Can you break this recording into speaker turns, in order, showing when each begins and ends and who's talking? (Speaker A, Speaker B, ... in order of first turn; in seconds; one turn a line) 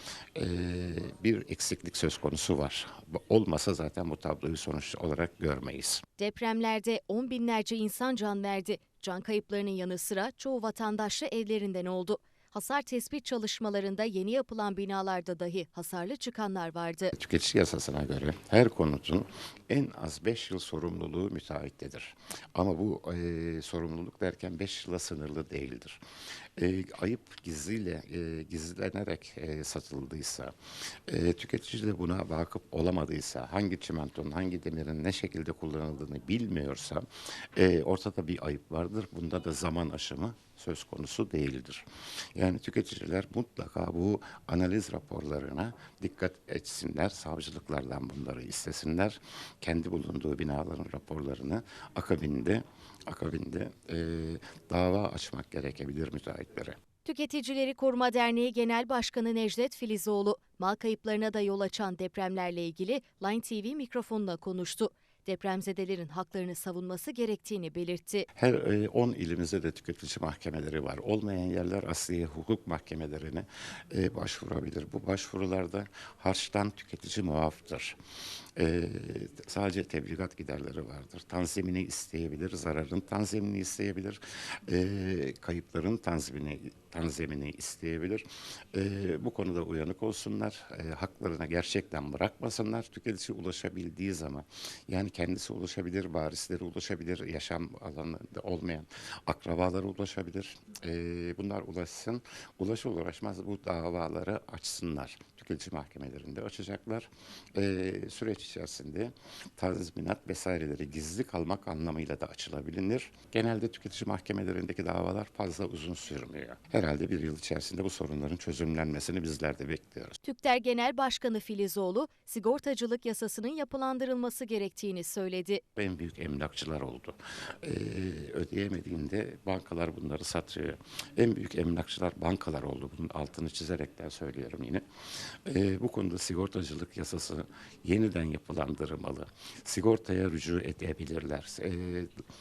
Speaker A: 0.3-6.0
Speaker B: 6.2-17.1
Speaker A: 17.1-26.0
Speaker A: 26.6-30.5
Speaker A: 31.1-56.8
Speaker B: 57.0-68.3
Speaker A: 68.3-78.0
Speaker A: 78.6-120.2
Speaker B: 120.2-125.6
Speaker A: 125.8-134.8
Speaker A: 135.4-142.1